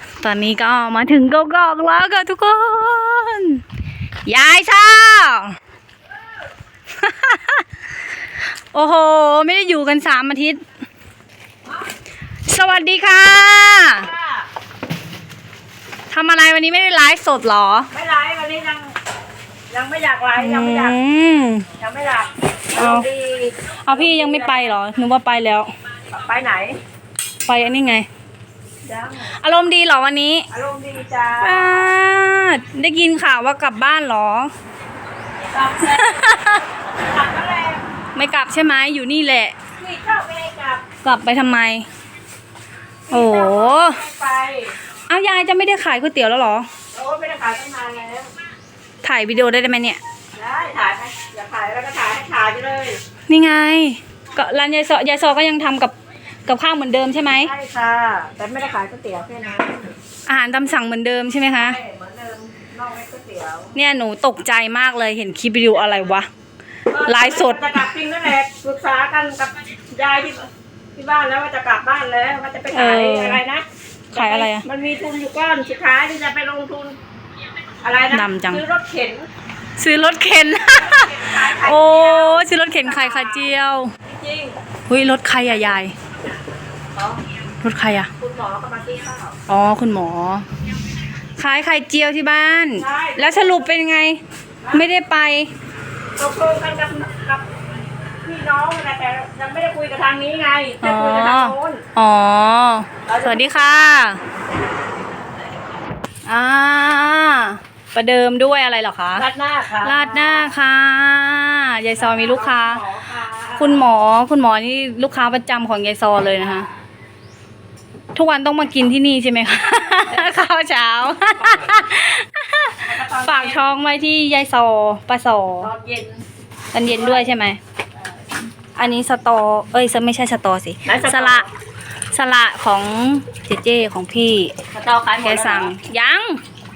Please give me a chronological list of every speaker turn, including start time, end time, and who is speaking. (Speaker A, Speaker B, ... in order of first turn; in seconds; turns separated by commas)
Speaker A: 0.2-3.6, Speaker A: 4.3-5.5, Speaker A: 7.0-7.6, Speaker A: 8.7-10.6, Speaker A: 12.5-14.1, Speaker B: 13.9-14.5, Speaker A: 16.1-17.9, Speaker B: 17.9-18.9, Speaker B: 19.7-21.0, Speaker A: 20.4-21.7, Speaker B: 21.8-24.8, Speaker A: 22.7-23.1, Speaker A: 23.8-25.7, Speaker B: 26.1-26.8, Speaker A: 27.4-28.1, Speaker B: 28.9-29.4, Speaker A: 29.3-30.5, Speaker B: 30.5-31.9, Speaker A: 31.4-34.5, Speaker B: 35.5-36.4, Speaker A: 35.8-36.6, Speaker B: 36.9-37.9, Speaker A: 38.1-39.5, Speaker B: 39.8-40.9, Speaker A: 41.0-41.9, Speaker B: 43.1-44.8, Speaker A: 43.1-44.0, Speaker A: 45.1-46.7, Speaker B: 46.9-48.3, Speaker A: 49.0-50.0, Speaker B: 50.4-53.0, Speaker A: 53.3-56.0, Speaker A: 56.5-57.5, Speaker B: 57.3-59.9, Speaker A: 60.3-61.8, Speaker B: 61.5-63.8, Speaker A: 63.8-66.3, Speaker B: 66.9-77.0, Speaker A: 67.1-67.8, Speaker A: 72.7-73.4, Speaker A: 74.1-74.7, Speaker B: 77.8-79.3, Speaker A: 78.1-78.6, Speaker A: 79.8-83.9, Speaker B: 80.7-83.5, Speaker B: 84.1-84.6, Speaker A: 84.9-85.9, Speaker B: 87.0-87.2, Speaker A: 87.6-88.1, Speaker B: 88.2-89.4, Speaker A: 89.5-90.5, Speaker A: 91.4-94.2, Speaker B: 92.8-93.7, Speaker A: 94.7-95.5, Speaker B: 96.2-97.6, Speaker B: 98.2-101.8, Speaker A: 100.8-104.2, Speaker B: 103.1-103.7, Speaker A: 106.3-109.2, Speaker B: 109.2-110.5, Speaker A: 109.8-112.8, Speaker B: 112.0-113.9, Speaker A: 113.6-116.7, Speaker A: 118.2-125.7, Speaker B: 121.4-121.8, Speaker B: 122.8-123.7, Speaker B: 125.6-126.2, Speaker A: 126.7-127.6, Speaker B: 126.8-127.4, Speaker A: 128.8-131.5, Speaker B: 130.8-131.5, Speaker A: 132.1-134.5, Speaker B: 134.7-135.7, Speaker A: 135.2-136.4